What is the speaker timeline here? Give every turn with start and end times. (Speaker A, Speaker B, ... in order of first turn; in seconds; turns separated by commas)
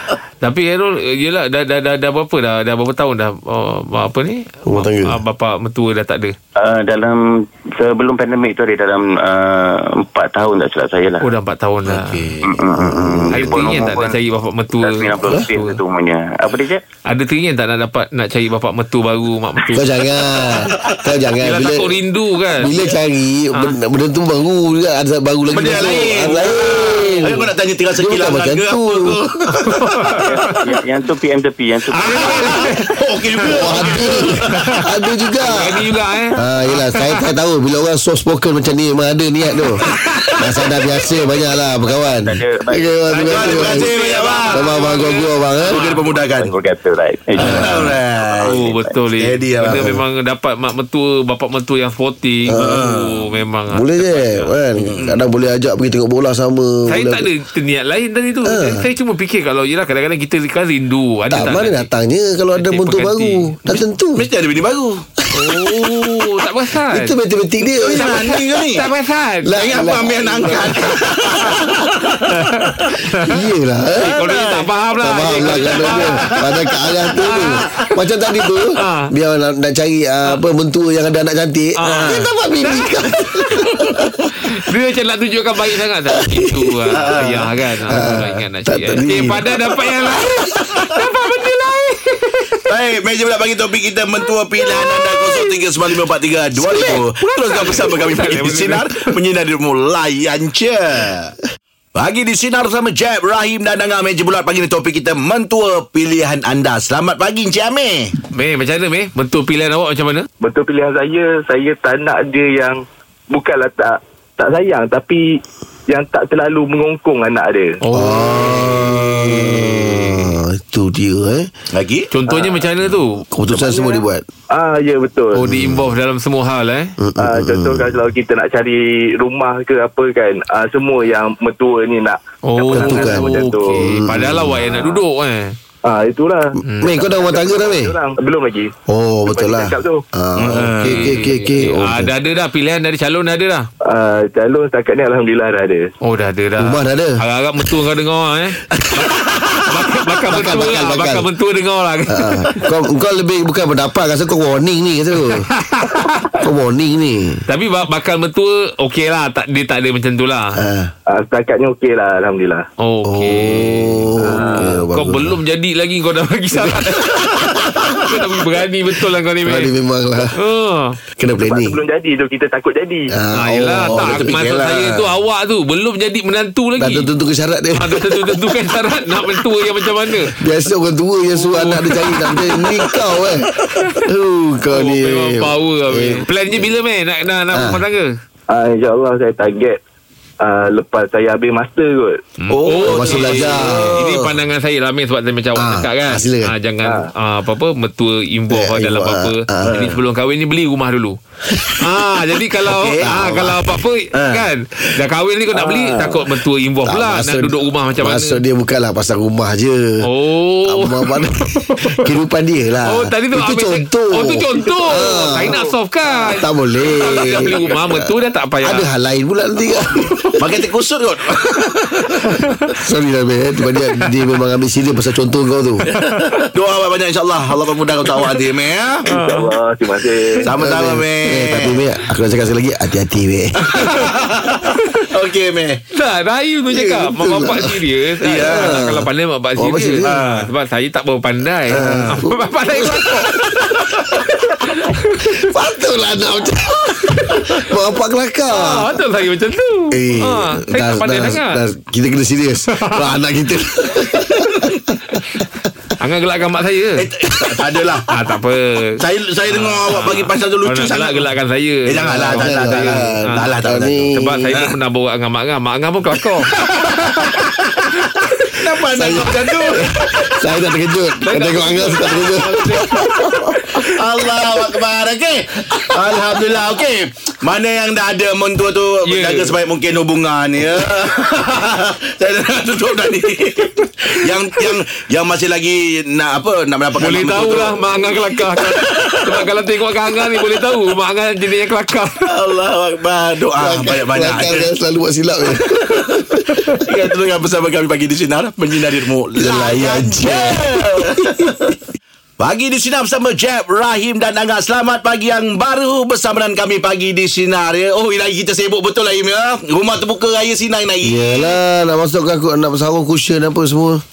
Speaker A: 0.4-6.3, Speaker B: 4.7-5.2, Speaker C: 6.5-11.2, Speaker A: 11.2-12.4, Speaker D: 11.8-12.5, Speaker C: 12.4-14.2, Speaker B: 12.8-13.6, Speaker A: 13.3-15.8, Speaker C: 14.8-16.8, Speaker A: 17.1-20.5, Speaker B: 19.7-22.0, Speaker A: 21.4-22.7, Speaker B: 22.6-29.1, Speaker D: 25.5-30.5, Speaker A: 27.0-27.4, Speaker A: 29.6-30.6, Speaker C: 30.2-32.8, Speaker D: 31.9-34.8, Speaker A: 32.0-34.9, Speaker B: 33.5-39.8, Speaker A: 35.4-37.1, Speaker D: 40.0-40.4, Speaker B: 40.4-44.0, Speaker C: 41.6-44.9, Speaker A: 43.2-45.3, Speaker D: 43.3-44.7, Speaker B: 44.5-45.8, Speaker D: 45.6-46.5, Speaker C: 45.7-49.0, Speaker D: 47.4-50.0, Speaker B: 47.4-47.9, Speaker A: 48.4-55.1, Speaker B: 49.7-50.0, Speaker B: 52.5-52.8, Speaker D: 52.5-53.3, Speaker B: 53.7-57.3, Speaker D: 54.8-55.2, Speaker A: 56.9-61.9, Speaker B: 58.4-58.9, Speaker B: 61.3-64.3, Speaker A: 62.5-63.8, Speaker D: 64.2-65.0, Speaker A: 65.3-67.1, Speaker B: 65.4-66.2, Speaker B: 66.9-68.1, Speaker D: 67.7-68.8, Speaker A: 67.9-69.5, Speaker B: 69.4-70.9, Speaker D: 69.5-72.7, Speaker A: 72.3-73.3, Speaker B: 73.3-74.1, Speaker D: 74.0-74.7, Speaker A: 74.0-76.1, Speaker B: 75.0-84.1, Speaker D: 75.2-77.9, Speaker A: 77.2-77.6, Speaker A: 78.8-79.1, Speaker A: 81.8-82.8, Speaker A: 84.4-92.6, Speaker B: 86.1-86.5, Speaker D: 86.9-87.5, Speaker B: 87.9-89.5, Speaker D: 92.7-101.3, Speaker A: 94.7-95.5, Speaker A: 96.6-98.9, Speaker D: 101.9-108.1, Speaker A: 108.3-110.3, Speaker E: 110.4-117.8, Speaker A: 117.8-120.4, Speaker B: 117.9-121.5, Speaker D: 121.7-122.1, Speaker A: 122.1-123.2, Speaker E: 122.3-122.7, Speaker B: 123.3-124.2, Speaker E: 123.5-125.5, Speaker A: 125.3-126.9, Speaker B: 125.4-125.9, Speaker B: 127.0-127.9, Speaker E: 127.2-133.9, Speaker A: 132.5-135.6, Speaker B: 132.7-134.7, Speaker E: 134.6-135.0, Speaker E: 135.8-138.7, Speaker A: 136.7-136.9, Speaker B: 136.7-137.9, Speaker B: 138.9-142.1, Speaker E: 139.2-140.0, Speaker D: 140.3-141.2, Speaker A: 140.8-143.7, Speaker E: 143.8-145.9, Speaker A: 146.0-152.7, Speaker B: 146.6-147.2, Speaker B: 148.8-149.0, Speaker B: 150.3-151.3, Speaker B: 152.1-155.5, Speaker A: 155.6-156.3, Speaker B: 156.4-157.4, Speaker A: 157.5-160.6, Speaker B: 160.6-160.9, Speaker E: 161.1-162.7, Speaker A: 162.8-169.7, Speaker B: 163.0-165.4, Speaker E: 164.2-164.8, Speaker B: 169.4-170.4, Speaker A: 170.4-171.0, Speaker B: 171.2-171.8, Speaker E: 171.3-173.1, Speaker B: 173.1-174.4, Speaker A: 173.3-177.1, Speaker D: 173.8-175.1, Speaker B: 176.8-178.6, Speaker A: 177.8-180.3, Speaker B: 180.1-186.7, Speaker A: 181.3-183.2, Speaker A: 184.7-188.1, Speaker B: 187.5-187.8, Speaker E: 188.5-189.8, Speaker E: 190.4-192.2, Speaker A: 192.5-201.2, Speaker D: 192.5-194.3, Speaker B: 192.8-193.9, Speaker B: 195.5-196.5, Speaker E: 196.8-197.1, Speaker B: 198.5-199.9, Speaker D: 199.7-199.9, Speaker A: 201.8-208.4, Speaker D: 202.7-203.5, Speaker B: 203.1-203.4, Speaker D: 204.1-204.5, Speaker E: 205.5-206.2, Speaker B: 206.8-210.1, Speaker A: 210.0-212.1, Speaker B: 210.6-215.6, Speaker A: 212.9-218.9, Speaker B: 216.3-218.1, Speaker B: 218.6-220.3, Speaker A: 219.9-220.3, Speaker D: 220.4-222.4, Speaker B: 222.8-225.9, Speaker D: 225.8-229.0, Speaker A: 229.1-229.5, Speaker E: 229.1-230.4, Speaker D: 230.4-231.8, Speaker B: 230.5-233.6, Speaker A: 233.7-234.0, Speaker D: 233.7-235.8, Speaker A: 235.9-245.4, Speaker B: 236.7-237.8, Speaker D: 238.2-238.7, Speaker B: 238.4-240.2, Speaker D: 240.0-240.5, Speaker B: 241.7-243.5, Speaker D: 241.7-242.2, Speaker B: 245.3-248.9, Speaker A: 247.1-247.7, Speaker A: 248.5-251.6, Speaker D: 249.9-250.4, Speaker B: 250.7-254.7, Speaker A: 252.7-253.1, Speaker A: 255.2-255.4, Speaker A: 256.0-257.1, Speaker D: 256.9-258.1, Speaker A: 258.1-263.5, Speaker D: 259.0-261.3, Speaker D: 261.9-264.7, Speaker B: 262.0-264.5, Speaker A: 264.1-266.5, Speaker D: 266.5-270.4, Speaker B: 268.9-273.3, Speaker A: 271.3-273.9, Speaker D: 272.9-287.8, Speaker A: 279.1-279.5, Speaker A: 287.0-292.2, Speaker D: 288.4-289.4, Speaker D: 292.3-294.7, Speaker B: 293.5-296.2, Speaker D: 296.8-301.7, Speaker B: 299.4-301.3, Speaker D: 302.4-311.6, Speaker B: 311.0-314.0